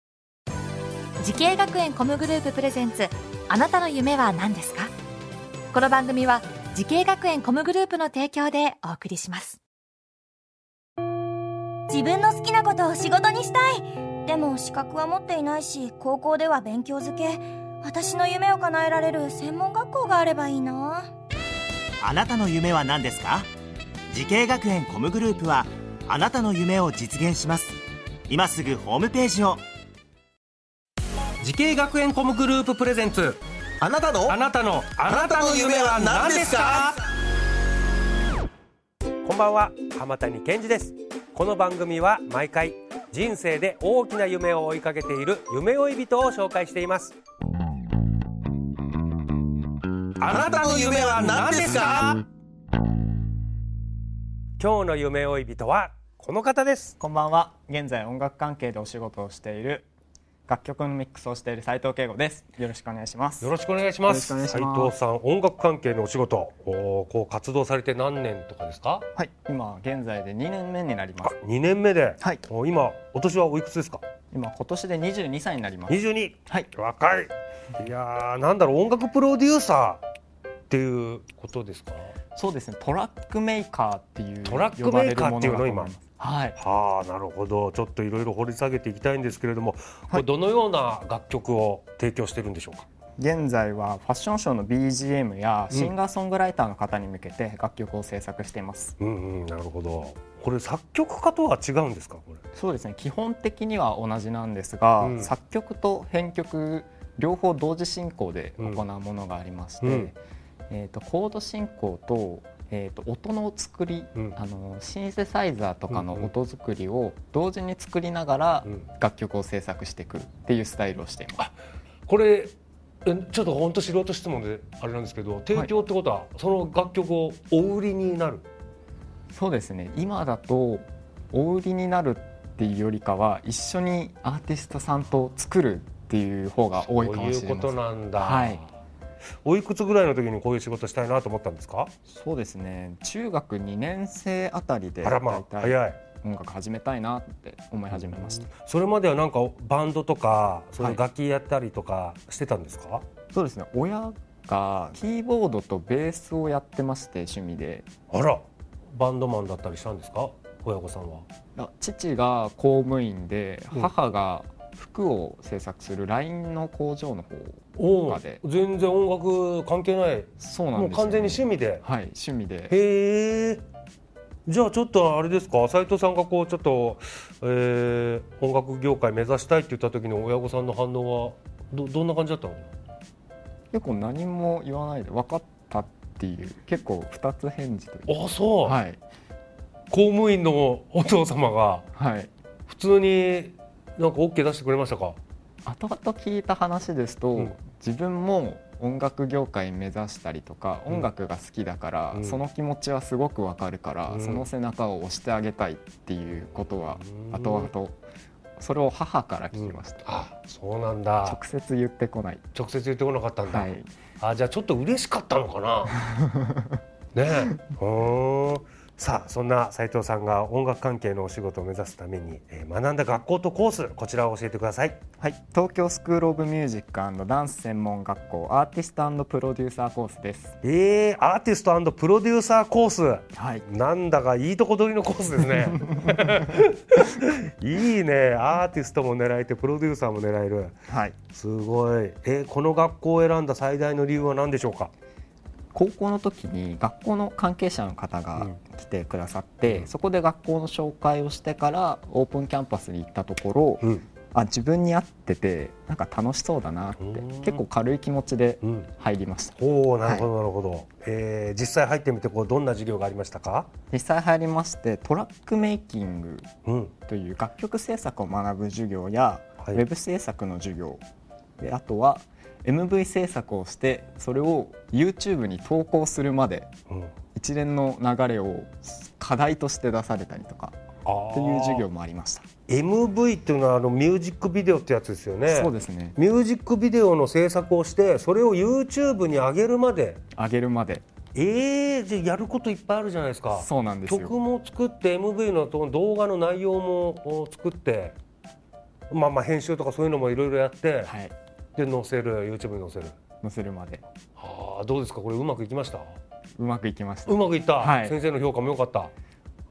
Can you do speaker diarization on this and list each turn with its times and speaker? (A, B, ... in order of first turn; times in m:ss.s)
0:01.2-0:04.9 A
0:05.7-0:09.6 A
0:11.9-0:21.1 B
0:22.0-0:23.5 C
0:24.1-0:29.6 C
0:31.4-0:33.4 D
0:33.8-0:34.4 E
0:34.2-0:37.0 D
0:35.1-0:36.9 E
0:39.2-0:47.2 D
0:50.2-0:52.1 D
0:50.3-0:52.2 E
0:54.6-0:57.0 D
0:57.0-0:59.9 F
1:00.5-1:03.5 F
1:03.4-1:09.1 D
1:04.1-1:04.9 F
1:09.1-1:11.4 F
1:11.2-1:14.0 D
1:14.3-1:16.7 F
1:15.9-1:20.0 D
1:20.7-1:22.2 D
1:22.3-1:26.6 F
1:24.4-1:25.9 D
1:26.6-1:32.9 D
1:33.2-1:39.0 F
1:39.0-1:42.4 D
1:42.6-1:50.2 F
1:45.0-1:45.3 D
1:49.8-1:50.1 D
1:50.7-2:01.5 F
1:55.9-1:56.3 D
2:02.1-2:02.5 D
2:03.1-2:08.5 D
2:09.3-2:18.7 F
2:16.8-2:18.7 D
2:19.4-2:21.9 D
2:22.1-2:28.5 F
2:25.0-2:26.0 D
2:27.9-2:33.0 D
2:33.3-2:37.9 F
2:38.1-2:41.3 D
2:41.6-2:48.4 F
2:47.8-2:51.8 D
2:50.4-2:52.8 F
2:52.7-2:53.6 D
2:54.5-3:02.7 D
3:03.7-3:09.0 F
3:08.1-3:08.8 D
3:09.9-3:11.9 D
3:11.9-3:12.3 F
3:12.7-3:15.2 D
3:15.6-3:28.0 F
3:22.1-3:22.4 D
3:24.1-3:24.5 D
3:27.0-3:27.7 D
3:28.6-3:30.0 F
3:29.5-3:31.4 D
3:31.2-3:32.4 F
3:32.6-3:36.0 D
3:33.5-3:33.8 F
3:36.0-3:36.8 F
3:37.1-3:45.0 D
3:45.2-3:50.6 F
3:50.6-4:00.8 D
3:53.3-3:53.7 F
4:00.9-4:01.2 F
4:01.3-4:04.9 D
4:05.7-4:20.3 F
4:17.0-4:17.6 D
4:18.6-4:18.9 D
4:19.6-4:23.7 D
4:23.9-4:26.5 F
4:26.6-4:26.9 D
4:27.1-4:31.0 F
4:31.6-4:36.7 F
4:37.4-4:40.8 F
4:41.1-4:41.9 D
4:41.3-4:42.4 F
4:42.7-4:50.2 D
4:45.5-4:46.2 F
4:50.3-4:51.0 F
4:51.4-4:58.2 D
4:53.5-4:54.4 F
4:59.1-5:01.1 D
5:01.0-5:01.3 F
5:01.8-5:03.2 D
5:03.4-5:04.0 F
5:04.4-5:06.2 D
5:06.6-5:08.2 F
5:07.3-5:09.1 D